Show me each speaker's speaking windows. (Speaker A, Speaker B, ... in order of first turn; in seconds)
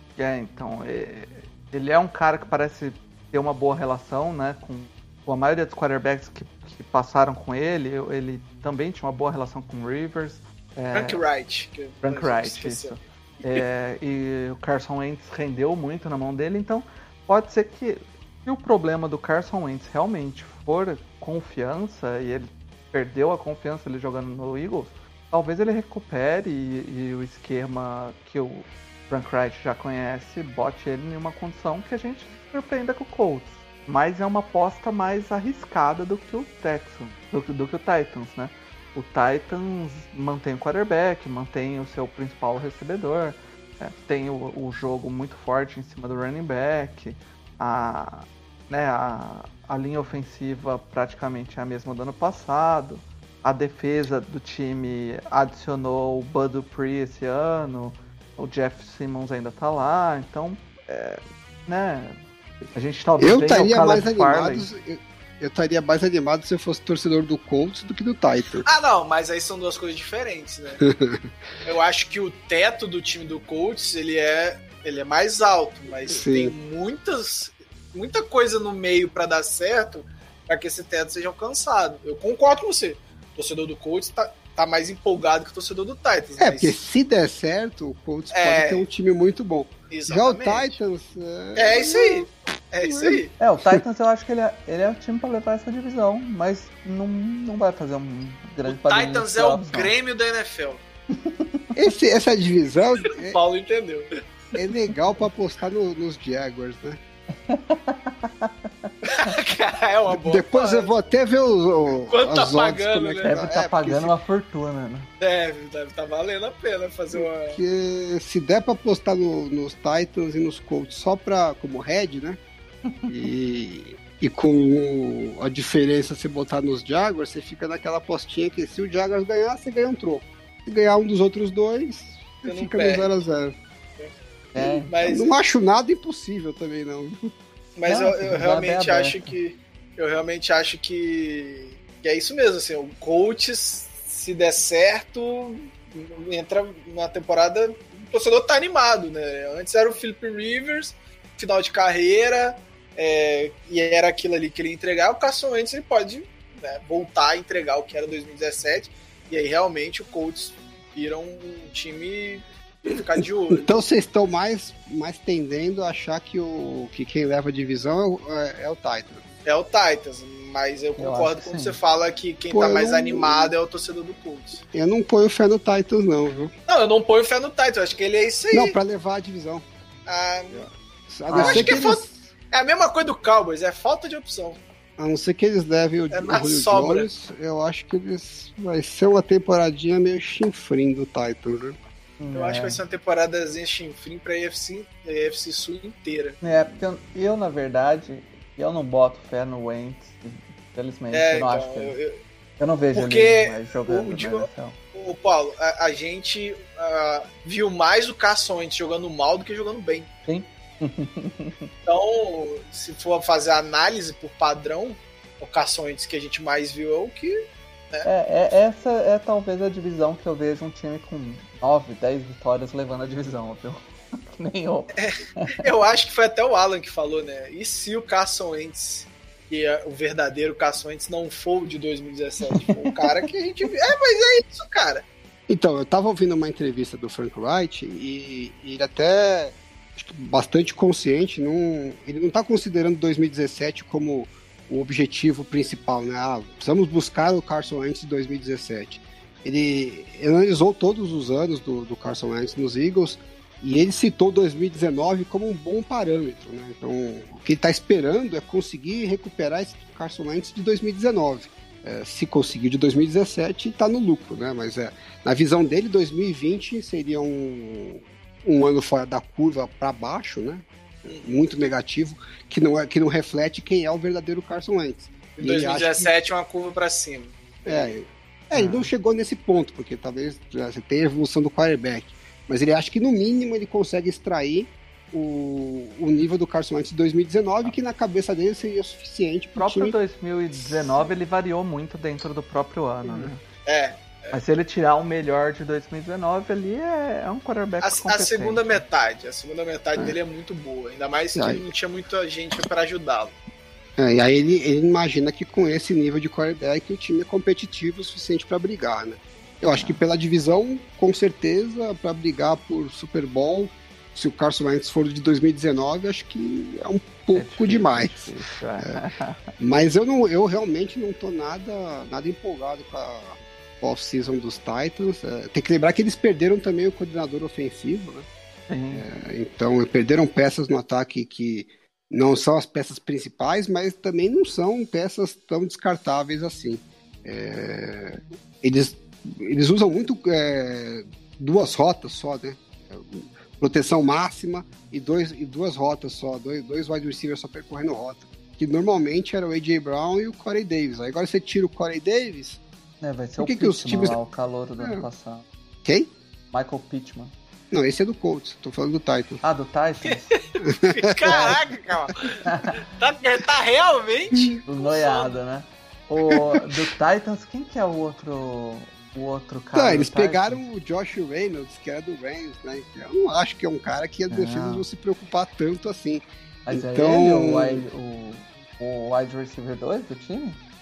Speaker A: 0.2-11.2, 12.0-62.2, 62.7-64.7, 93.4-99.9, 101.2-101.6, 107.5-108.9, 113.2-115.1, 134.6-134.9, 137.9-139.4, 171.0-171.8, 181.3-181.8, 192.2-192.8, 196.4-201.9, 202.6-204.8, 210.3-211.7, 218.1-225.6, 232.5-233.0, 278.5-278.9, 289.6-293.4, 294.3-298.8, 309.7-310.0, 317.3-319.5, 328.7-329.1, 353.0-355.5, 356.5-357.3, 359.4-360.3, 361.3-361.6, 362.5-362.8, 364.7-370.6, 374.3-374.9, 376.7-380.6
Speaker B: 10.9-13.6, 68.6-70.8, 71.6-86.8, 88.3-88.9, 89.9-90.7, 91.6-93.3, 98.7-100.8, 103.2-104.1, 109.1-110.9, 112.1-113.4, 115.2-117.6, 132.5-133.1, 134.9-135.3, 137.8-163.8, 169.4-174.6, 176.7-178.8, 180.1-180.7, 181.3-184.6, 186.1-187.1, 192.3-196.4, 201.1-202.2, 202.9-210.1, 211.9-217.3, 225.0-235.1, 271.1-271.3, 275.4-277.9, 293.7-294.4, 297.8-303.4, 360.1-365.4
Speaker C: 63.2-68.7, 70.8-71.3, 76.1-76.5, 86.4-92.3, 92.8-93.8, 101.8-103.4, 104.5-107.0, 110.1-114.1, 117.1-122.4, 123.1-133.6, 134.5-137.3, 163.5-169.2, 172.5-173.5, 174.7-176.5, 178.5-179.7, 180.5-182.2, 185.0-191.8, 235.5-276.1, 277.6-290.0, 301.4-301.6, 304.0-319.0, 319.6-328.3, 328.9-352.6, 353.4-354.2, 354.8-355.1, 355.9-356.1, 357.7-359.4, 360.7-361.6, 366.3-366.8, 369.7-377.8